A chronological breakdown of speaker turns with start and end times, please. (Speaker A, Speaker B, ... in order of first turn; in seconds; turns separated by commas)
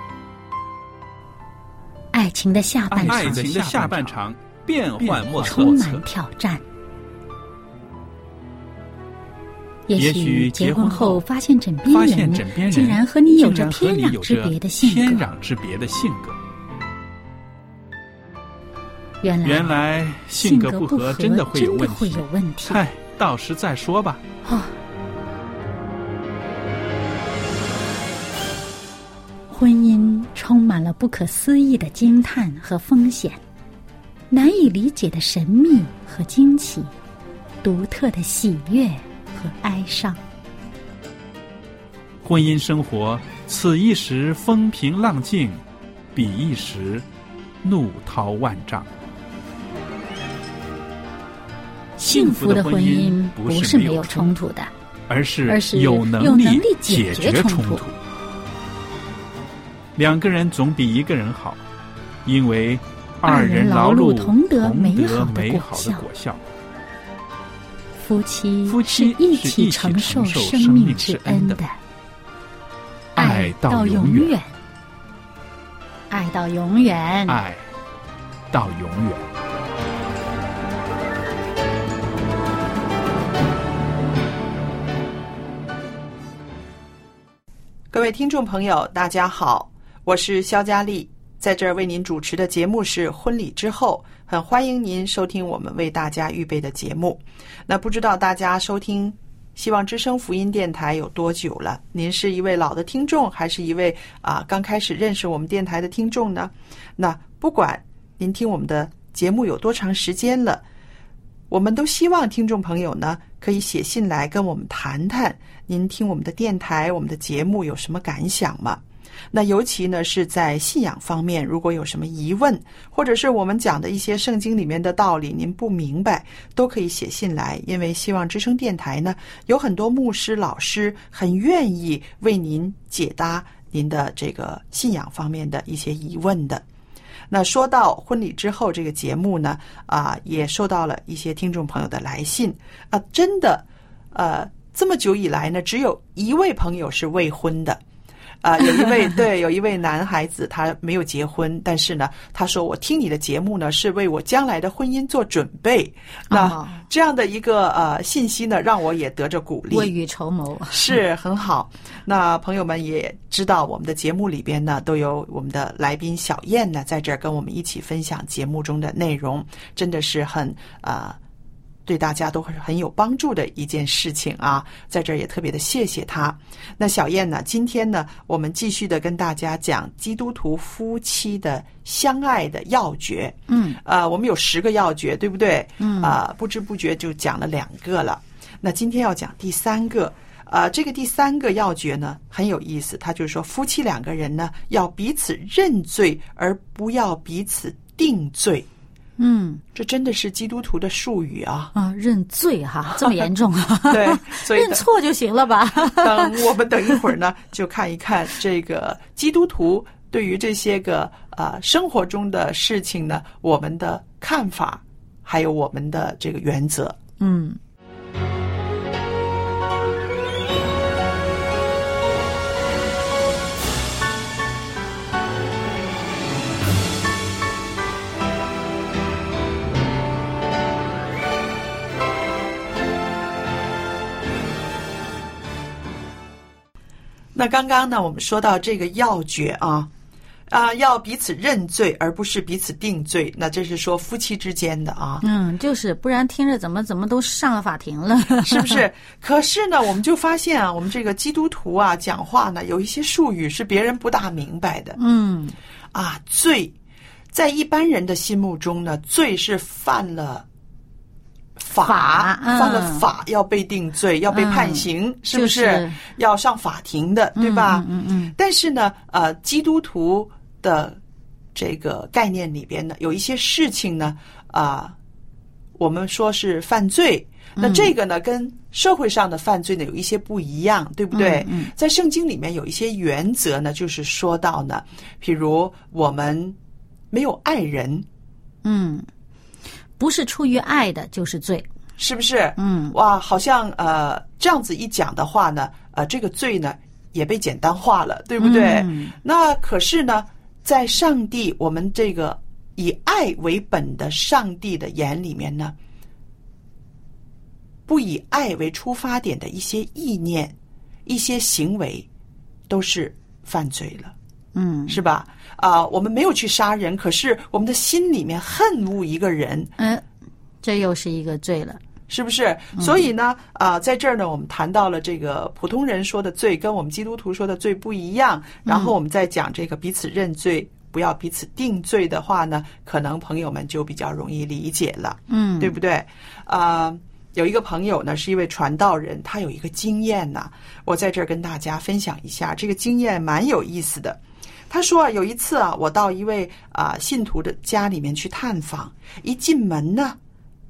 Speaker A: 2.1-4.1, Speaker B: 2.9-6.1, Speaker A: 5.0-6.6, Speaker A: 9.9-15.3, Speaker B: 9.9-11.2, Speaker B: 11.9-16.4, Speaker A: 19.2-19.8, Speaker B: 19.4-24.2, Speaker A: 20.4-22.8, Speaker A: 24.4-24.7, Speaker A: 29.5-33.4, Speaker A: 34.3-36.9, Speaker A: 37.6-40.2, Speaker B: 42.2-45.6, Speaker B: 46.1-47.0, Speaker B: 47.6-48.9, Speaker A: 52.0-54.7, Speaker B: 52.0-54.3, Speaker B: 55.1-58.0, Speaker A: 55.5-57.8, Speaker B: 60.0-61.6, Speaker B: 62.2-66.4, Speaker A: 63.2-66.1, Speaker A: 68.0-71.8, Speaker B: 68.7-71.6, Speaker B: 73.2-74.3, Speaker A: 73.2-74.5, Speaker A: 76.1-77.4, Speaker B: 77.3-77.7, Speaker B: 78.5-79.2, Speaker C: 87.9-110.6, Speaker C: 111.5-136.6, Speaker C: 137.3-147.8, Speaker C: 148.4-159.9, Speaker A: 156.3-156.8, Speaker A: 159.7-161.0, Speaker C: 160.7-171.2, Speaker C: 171.9-198.7, Speaker A: 183.5-183.8, Speaker A: 185.8-186.2, Speaker A: 199.2-199.6, Speaker C: 199.8-201.7, Speaker A: 201.8-207.1, Speaker C: 203.9-204.9, Speaker C: 205.8-217.0, Speaker A: 217.2-217.6, Speaker C: 237.3-239.9, Speaker C: 240.5-245.2, Speaker A: 245.2-248.8, Speaker C: 248.4-255.0, Speaker A: 255.0-255.6, Speaker C: 255.9-256.8, Speaker C: 257.3-260.5, Speaker C: 261.6-271.0, Speaker A: 261.8-263.1, Speaker A: 264.3-266.0, Speaker A: 267.4-268.3, Speaker C: 271.6-275.0, Speaker C: 275.8-286.6, Speaker A: 277.6-277.9, Speaker A: 281.1-281.7, Speaker C: 287.1-288.1, Speaker A: 288.6-289.1, Speaker A: 290.0-291.7, Speaker C: 292.0-305.8, Speaker A: 292.6-292.9, Speaker A: 298.4-299.1, Speaker C: 307.9-310.6, Speaker C: 311.1-312.1, Speaker C: 312.7-314.1, Speaker A: 314.6-315.0, Speaker C: 314.9-319.7, Speaker A: 319.8-320.0, Speaker A: 320.6-321.8, Speaker C: 322.1-350.2, Speaker A: 328.7-328.9, Speaker A: 335.3-335.8